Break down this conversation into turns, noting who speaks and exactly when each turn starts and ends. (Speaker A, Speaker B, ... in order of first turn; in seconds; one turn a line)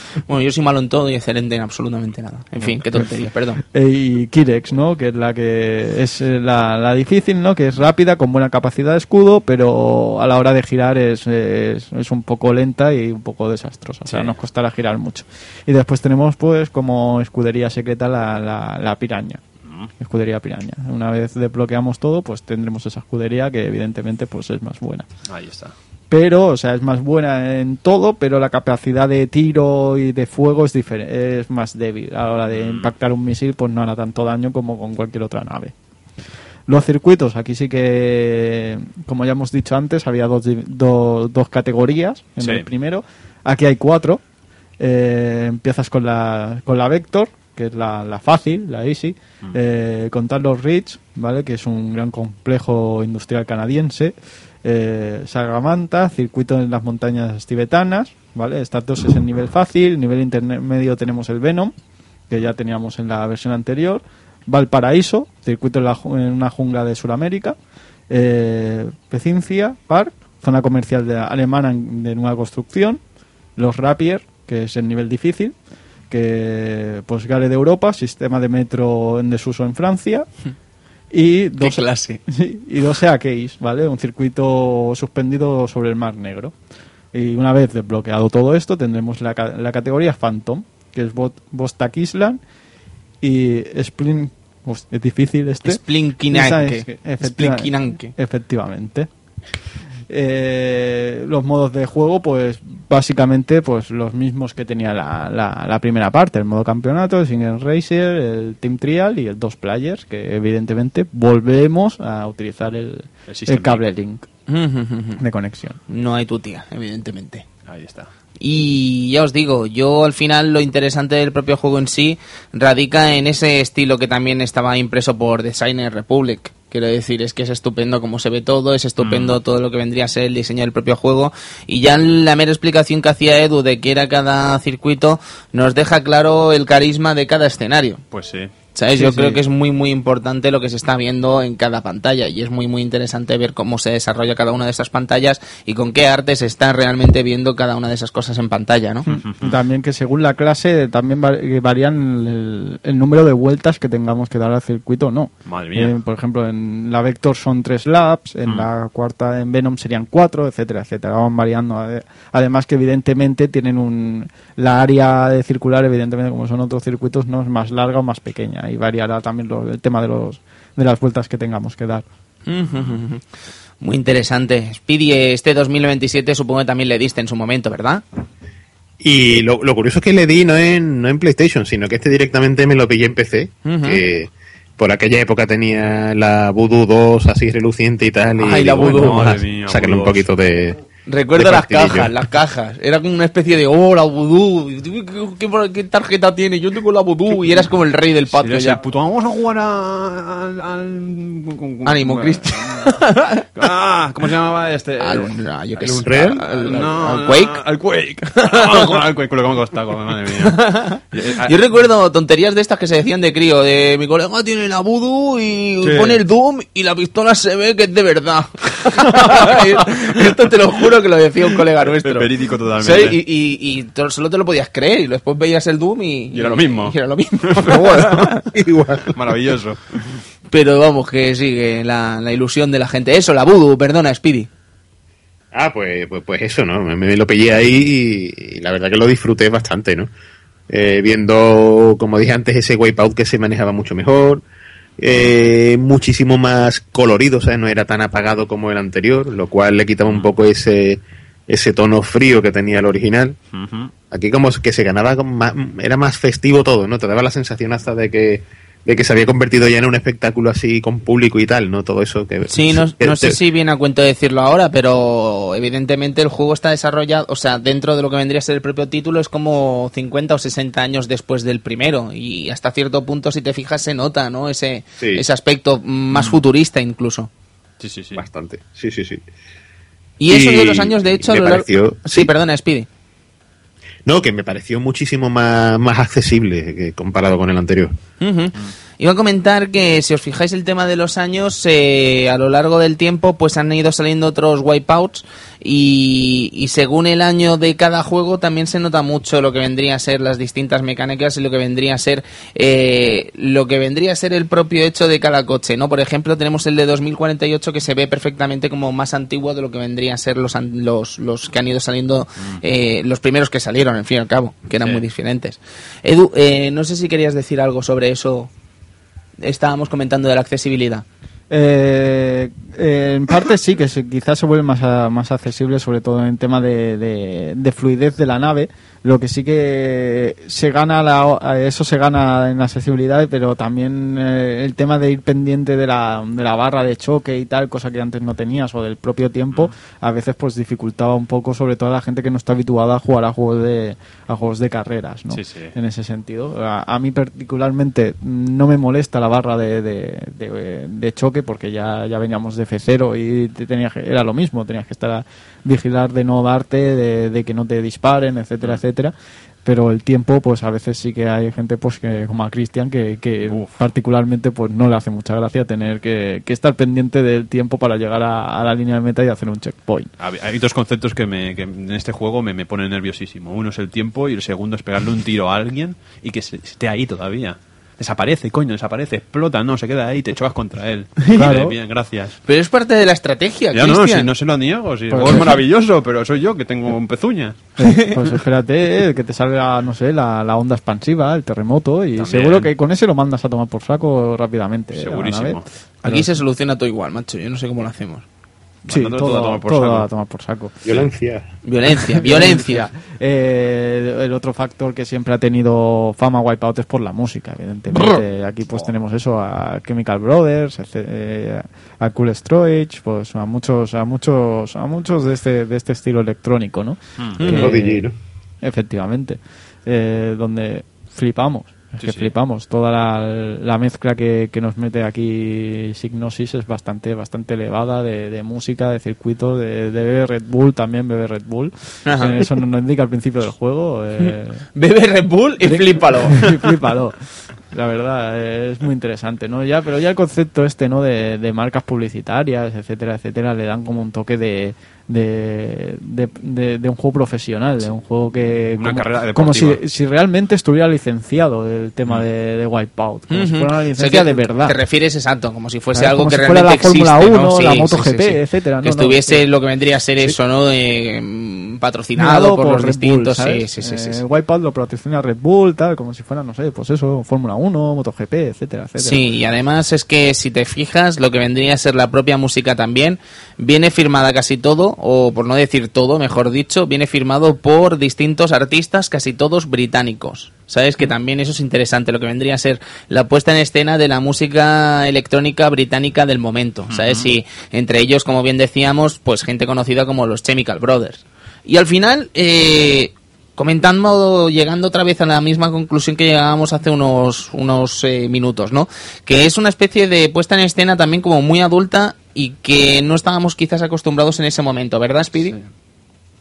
Speaker A: 0.1-3.6
Speaker B: 3.6-19.4
Speaker C: 14.1-14.3
Speaker C: 19.6-19.9
Speaker B: 20.0-25.1
Speaker C: 25.3-25.7
Speaker B: 26.1-35.7
Speaker C: 32.5-32.9
Speaker B: 36.7-44.2
Speaker C: 42.4-42.6
Speaker B: 44.8-61.7
Speaker B: 62.3-67.5
Speaker B: 68.1-73.0
Speaker B: 73.5-75.5
Speaker B: 76.1-80.3
Speaker B: 81.1-86.5
Speaker A: 81.6-82.2
Speaker B: 87.1-92.4
Speaker B: 93.2-99.1
Speaker A: 95.6-98.1
Speaker B: 100.1-114.3
Speaker C: 113.3-113.8
Speaker A: 114.5-115.2
Speaker B: 115.2-115.8
Speaker A: 115.9-117.4
Speaker C: 117.7-118.1
Speaker A: 118.4-138.0
Speaker C: 129.0-129.4
Speaker C: 138.1-138.5
Speaker A: 138.7-149.1
Speaker B: 139.0-139.4
Speaker B: 149.1-172.0
Speaker C: 149.1-149.5
Speaker C: 155.4-155.9
Speaker A: 172.5-173.2
Speaker A: 173.8-178.0
Speaker D: 179.0-190.8
Speaker A: 183.6-184.0
Speaker A: 188.4-189.3
Speaker C: 188.8-190.3
Speaker A: 191.1-198.8
Speaker D: 191.3-192.1
Speaker C: 198.3-203.0
Speaker A: 201.8-203.5
Speaker C: 203.6-211.5
Speaker A: 205.0-207.6
Speaker D: 206.0-206.4
Speaker A: 208.3-209.0
Speaker A: 210.4-228.4
Speaker C: 215.8-216.2
Speaker C: 219.0-219.8
Speaker C: 222.0-223.2
Speaker C: 226.3-226.9
Speaker C: 227.5-228.3
Speaker D: 228.5-229.2
Speaker C: 229.1-230.2
Speaker A: 230.5-234.5
Speaker D: 235.5-240.1
Speaker D: 240.7-244.4
Speaker D: 245.0-253.4
Speaker C: 253.5-253.9
Speaker D: 254.1-263.4
Speaker A: 262.5-277.3
Speaker D: 275.0-275.2
Speaker C: 277.8-278.2
Speaker D: 278.1-279.2
Speaker A: 280.2-282.9
Speaker D: 280.3-282.3
Speaker D: 284.1-287.9
Speaker A: 288.2-318.5
Speaker A: 319.4-321.0
Speaker B: 321.5-359.1
Speaker C: 345.3-345.7
Speaker B: 359.6-370.1
Speaker C: 363.4-363.8
Speaker C: 370.2-382.4
Speaker B: 381.3-381.8
Speaker A: 382.4-384.3
Speaker C: 383.7-387.6
Speaker B: 385.1-385.6
Speaker B: 387.8-396.3
Speaker C: 392.2-392.7
Speaker C: 394.9-395.6
Speaker A: 396.0-398.2
Speaker C: 398.9-400.1
Speaker B: 398.9-400.8
Speaker D: 400.9-401.5
Speaker A: 401.6-402.8
Speaker B: 402.1-418.0
Speaker A: 417.4-417.7
Speaker D: 417.4-418.1
Speaker B: 418.6-434.6
Speaker C: 422.0-422.3
Speaker A: 432.0-432.4
Speaker A: 434.8-436.5
Speaker B: 435.6-437.2
Speaker B: 437.7-454.8
Speaker C: 448.8-449.8
Speaker A: 453.3-464.2
Speaker B: 455.9-459.4
Speaker B: 462.2-469.2
Speaker A: 469.0-505.6
Speaker C: 486.9-487.3